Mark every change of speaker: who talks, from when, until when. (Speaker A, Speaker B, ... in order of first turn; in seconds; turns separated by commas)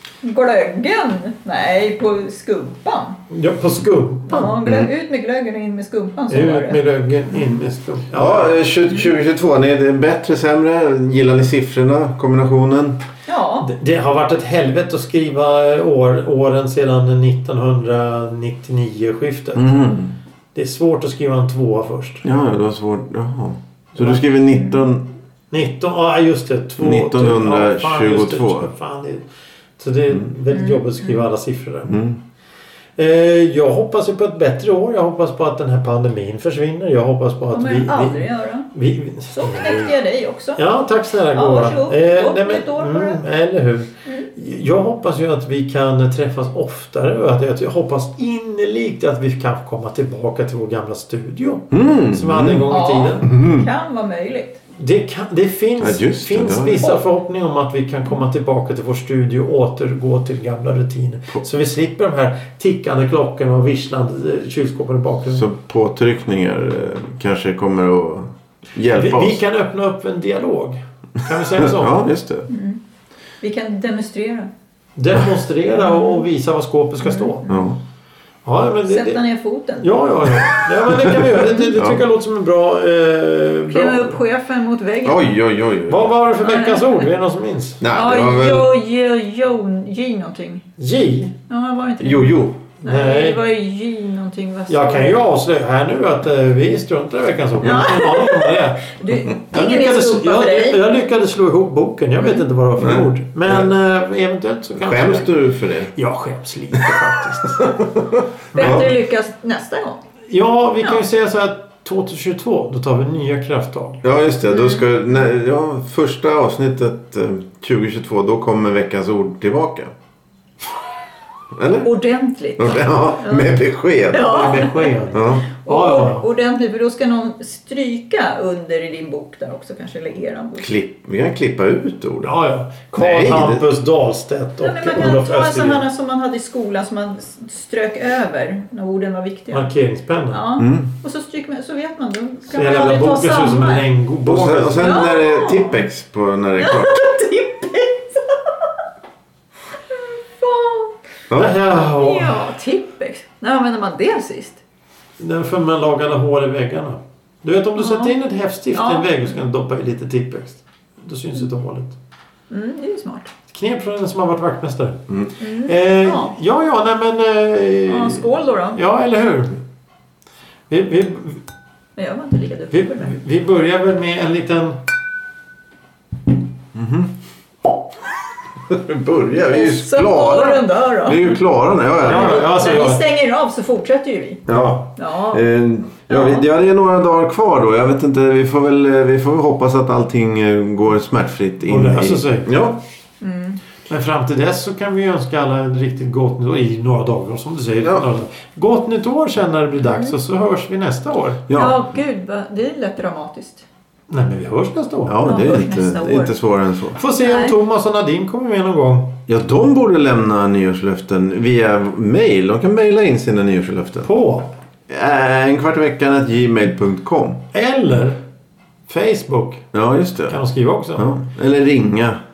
Speaker A: 0.2-3.2, Speaker B: 3.3-4.7, Speaker A: 4.3-6.8, Speaker C: 4.7-4.9, Speaker B: 6.3-8.6, Speaker C: 8.1-13.0, Speaker A: 8.9-9.1, Speaker A: 13.3-13.7, Speaker B: 13.6-19.8, Speaker C: 19.6-20.2, Speaker B: 20.6-22.2, Speaker C: 22.2-25.1, Speaker B: 24.0-24.2, Speaker A: 24.5-24.8, Speaker B: 25.5-29.2, Speaker C: 26.8-28.7, Speaker B: 29.8-31.9, Speaker A: 30.5-31.3, Speaker C: 31.9-32.2, Speaker B: 33.0-39.9, Speaker A: 37.5-38.7, Speaker A: 39.3-40.6, Speaker B: 40.6-53.3, Speaker A: 41.2-43.2, Speaker C: 51.7-53.7, Speaker A: 52.7-54.6, Speaker B: 54.8-65.5, Speaker C: 55.8-56.9, Speaker C: 65.3-69.4, Speaker B: 68.9-72.1, Speaker C: 71.6-72.5, Speaker A: 72.5-72.8, Speaker A: 73.4-74.5, Speaker B: 75.0-77.4, Speaker A: 75.7-76.3, Speaker A: 77.0-77.8, Speaker C: 77.5-77.8, Speaker B: 78.5-79.2, Speaker A: 78.9-79.9, Speaker B: 79.8-84.2, Speaker C: 80.9-82.0, Speaker A: 81.4-81.8, Speaker A: 83.7-85.4, Speaker C: 85.0-86.1, Speaker B: 85.9-87.8, Speaker A: 86.4-87.1, Speaker C: 87.8-88.7, Speaker A: 87.9-90.7, Speaker B: 90.8-91.3, Speaker A: 91.5-95.2, Speaker C: 92.0-92.6, Speaker B: 92.8-93.4, Speaker B: 94.7-105.4, Speaker A: 97.6-100.9, Speaker A: 102.2-102.5, Speaker C: 102.8-103.7, Speaker C: 104.8-105.9, Speaker B: 105.9-107.7, Speaker C: 107.5-107.9, Speaker C: 108.5-108.9, Speaker A: 108.5-110.0, Speaker B: 110.3-114.0, Speaker C: 114.0-119.9, Speaker A: 114.5-115.2, Speaker C: 121.6-121.9, Speaker A: 121.8-125.0, Speaker C: 122.6-124.5, Speaker B: 124.1-126.2, Speaker C: 125.1-125.5, Speaker A: 125.6-130.7, Speaker C: 130.6-132.3, Speaker B: 132.2-135.8, Speaker C: 132.9-133.6, Speaker A: 134.6-139.7, Speaker B: 139.5-140.4, Speaker A: 140.3-143.9, Speaker C: 140.6-140.9, Speaker B: 142.5-145.0, Speaker C: 144.3-147.1, Speaker A: 144.8-145.9, Speaker A: 146.6-148.7, Speaker A: 149.9-151.0, Speaker B: 151.3-152.4, Speaker A: 151.7-154.6, Speaker B: 155.2-162.0, Speaker A: 157.8-158.2, Speaker A: 158.7-159.5, Speaker A: 162.5-163.3, Speaker B: 163.5-165.0, Speaker C: 165.1-165.3, Speaker A: 165.4-166.3, Speaker B: 165.6-169.6, Speaker A: 167.9-168.8, Speaker B: 170.7-171.4, Speaker A: 172.0-173.2, Speaker B: 172.7-174.8, Speaker C: 176.7-177.1, Speaker C: 178.7-182.5, Speaker A: 179.4-181.4, Speaker A: 182.0-184.4, Speaker B: 182.0-183.0, Speaker C: 184.5-192.8, Speaker B: 184.5-184.8, Speaker A: 185.0-185.4, Speaker A: 186.1-186.5, Speaker B: 191.6-192.5, Speaker A: 193.2-193.6, Speaker B: 193.9-201.4, Speaker A: 199.8-200.2, Speaker C: 201.5-201.8, Speaker A: 201.5-203.7, Speaker B: 204.1-205.2, Speaker C: 205.1-207.0, Speaker A: 205.2-206.3, Speaker B: 206.9-209.1, Speaker A: 207.2-207.6, Speaker C: 209.3-214.1, Speaker B: 214.0-214.5, Speaker C: 214.9-217.4, Speaker B: 217.5-218.2, Speaker B: 218.9-219.7, Speaker C: 219.7-220.4, Speaker B: 220.3-221.2, Speaker C: 221.0-222.2